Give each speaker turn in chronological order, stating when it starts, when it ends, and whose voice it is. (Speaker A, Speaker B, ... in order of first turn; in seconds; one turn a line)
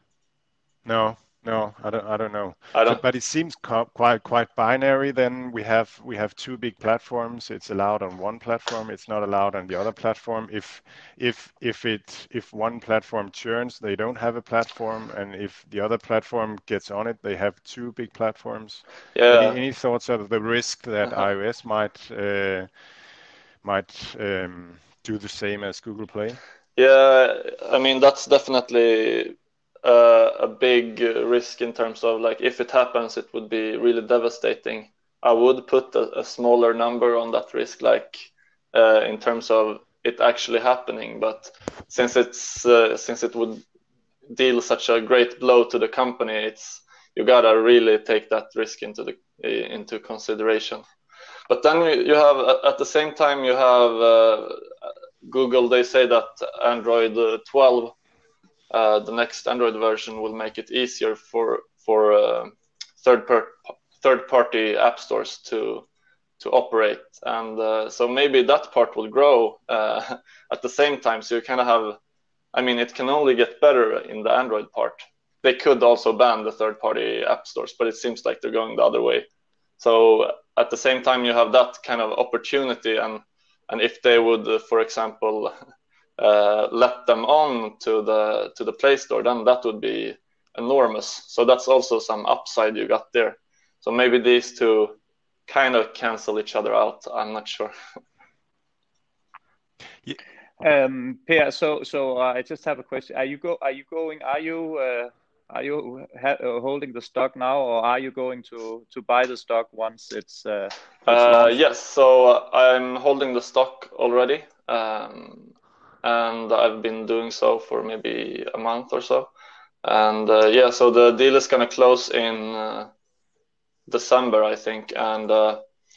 Speaker A: 0.8-22.7
Speaker B: 2.7-3.0
Speaker B: 19.1-19.6
Speaker A: 23.6-26.4
Speaker B: 26.8-43.6
Speaker B: 44.3-50.8
Speaker B: 51.5-54.7
Speaker B: 55.2-58.0
Speaker B: 58.7-65.8
Speaker B: 66.4-72.0
Speaker B: 72.5-79.3
Speaker B: 79.8-85.5
Speaker B: 86.2-97.7
Speaker C: 100.6-111.5
Speaker B: 111.1-119.3
Speaker B: 119.8-122.9
Speaker B: 123.9-125.6